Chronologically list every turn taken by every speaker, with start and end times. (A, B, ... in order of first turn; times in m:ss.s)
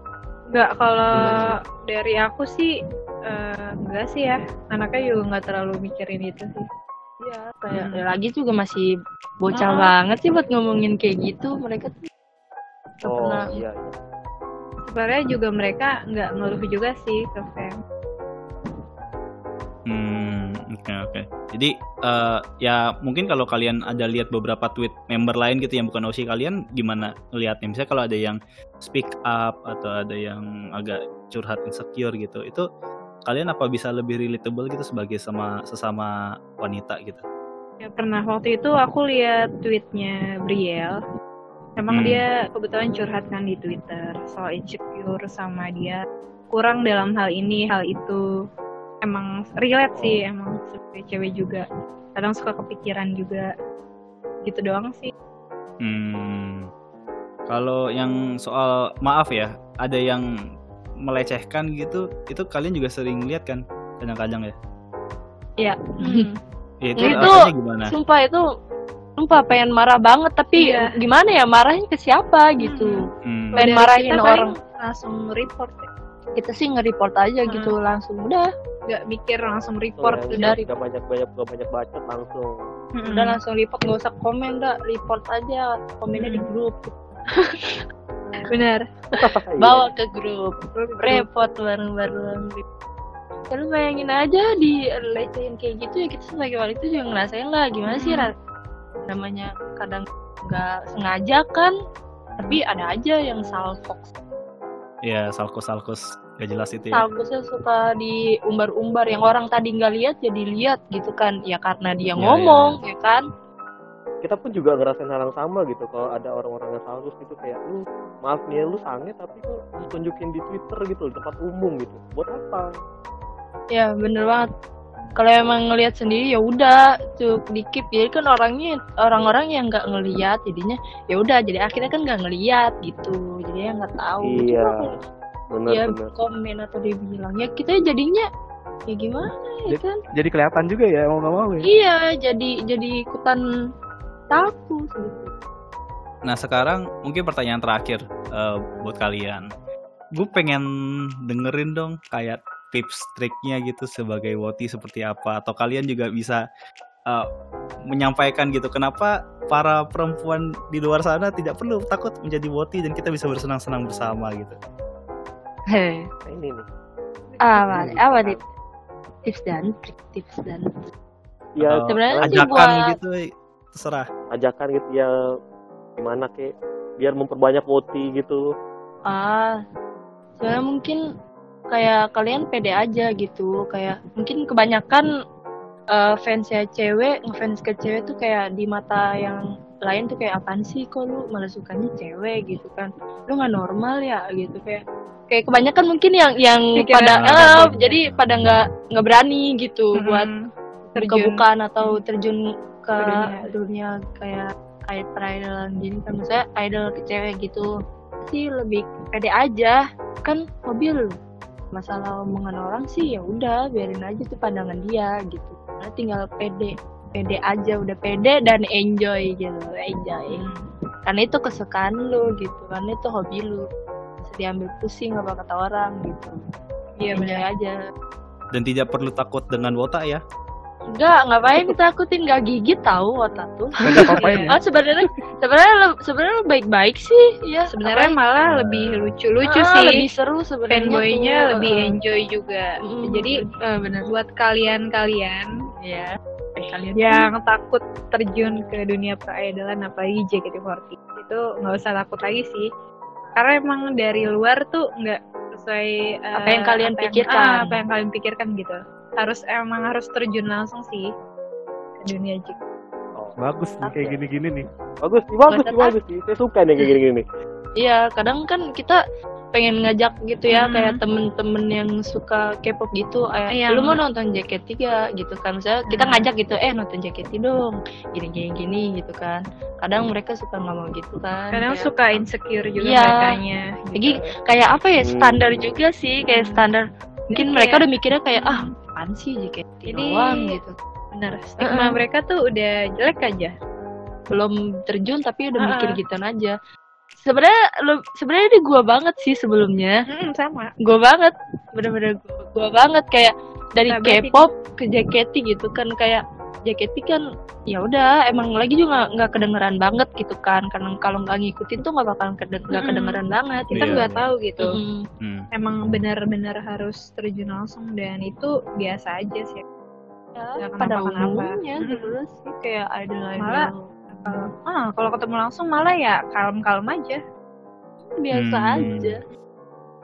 0:00.5-0:02.7 A
0:01.2-0:01.5 B
0:03.3-0:06.6 A
0:07.2-0:08.9 C
0:07.7-0:08.0 A
0:09.4-0:12.0 C
0:09.5-0:09.9 A
0:13.0-0:13.6 C
0:13.0-0:13.9 D
0:14.9-0:17.8 A
0:19.9-0:32.6 B
0:33.3-0:37.2 B
0:37.8-0:41.0 A
0:41.8-0:48.2 A
0:41.9-0:42.2 B
0:49.0-0:51.6 A
0:49.9-0:50.2 D
0:52.2-0:53.5 A
0:54.4-0:55.1 A
0:55.8-0:56.7 B
0:57.5-1:00.2 B
1:01.0-1:04.6 B
1:05.6-1:06.2 C
1:06.0-1:06.3 A
1:06.8-1:07.9 B
1:07.0-1:08.4 C
1:07.0-1:07.3 A
1:09.2-1:13.0 C
1:10.5-1:10.9 A
1:12.6-1:15.9 A
1:13.2-1:13.6 B
1:13.6-1:14.5 C
1:16.4-1:18.5 C
1:17.5-1:17.7 A
1:18.9-1:20.6 A
1:19.4-1:22.6 D
1:20.3-1:20.7 C
1:23.0-1:23.4 A
1:23.1-1:27.8 C
1:26.2-1:26.4 A
1:28.5-1:28.8 A
1:29.2-1:29.9 D
1:29.6-1:32.6 C
1:30.7-1:31.3 A
1:33.5-1:38.3 C
1:37.9-1:38.3 A
1:39.0-1:41.7 C
1:42.4-1:44.1 C
1:45.0-1:47.0 B
1:46.9-1:53.2 C
1:52.2-1:52.8 B
1:54.2-2:02.7 D
2:03.7-2:04.5 C
2:05.2-2:15.0 C
2:14.2-2:14.9 D
2:15.5-2:16.1 D
2:15.7-2:18.2 C
2:18.9-2:20.0 C
2:19.7-2:21.7 E
2:21.6-2:23.4 C
2:24.3-2:25.3 C
2:26.3-2:29.4 B
2:30.2-2:30.6 B
2:31.3-2:36.4 B
2:37.9-2:44.6 B
2:45.7-2:46.1 C
2:46.2-2:46.6 D
2:47.3-2:48.4 D
2:47.4-2:48.4 C
2:49.2-2:50.6 C
2:51.6-2:52.5 D
2:51.6-2:53.2 B
2:51.9-2:52.7 C
2:53.7-2:54.1 B
2:54.3-2:55.1 D
2:56.0-2:58.4 D
2:59.1-2:59.5 C
3:00.4-3:01.0 C
3:01.7-3:05.1 C
3:05.9-3:20.3 C
3:16.8-3:17.2 A
3:17.1-3:18.2 B
3:20.0-3:22.0 A
3:21.0-3:27.7 C
3:23.0-3:23.5 A
3:28.2-3:31.2 C
3:31.7-3:40.4 C
3:40.3-3:40.6 A
3:41.0-3:43.6 C
3:44.2-3:46.4 C
3:47.0-3:47.4 A
3:47.1-3:47.7 C
3:48.5-3:50.2 B
3:50.9-3:58.2 C
3:53.8-3:54.6 E
3:54.0-3:54.4 D
3:54.0-3:54.5 A
3:57.7-4:00.0 A
3:58.4-3:59.1 B
3:59.4-4:01.9 C
4:00.7-4:03.4 A
4:02.8-4:04.1 C
4:04.1-4:05.5 A
4:05.8-4:07.3 C
4:07.0-4:12.6 A
4:13.3-4:21.1 A
4:16.3-4:17.8 C
4:22.0-4:22.6 A
4:23.4-4:24.6 E
4:23.9-4:24.2 D
4:25.0-4:27.2 D
4:25.5-4:26.0 C
4:27.8-4:29.0 C
4:29.5-4:42.2 C
4:30.5-4:31.0 A
4:33.5-4:34.0 A
4:35.9-4:36.2 A
4:41.5-4:44.2 A
4:42.8-4:43.3 C
4:43.9-4:50.7 C
4:45.0-4:45.8 D
4:46.3-4:46.6 A
4:47.3-4:48.7 A
4:49.9-4:50.6 A
4:51.1-4:53.5 A
4:51.6-4:51.9 C
4:54.3-4:56.5 C
4:55.6-4:56.0 A
4:57.2-5:00.0 C
5:00.1-5:00.7 A
5:00.8-5:07.2 C
5:03.9-5:04.5 A
5:07.7-5:14.0 C
5:12.7-5:13.2 A
5:13.7-5:14.3 B
5:13.7-5:14.8 A
5:14.6-5:15.0 C
5:15.2-5:15.4 B
5:15.5-5:19.6 A
5:20.4-5:24.5 C
5:20.6-5:22.1 A
5:23.4-5:27.2 A
5:28.1-5:29.2 C
5:28.3-5:29.1 B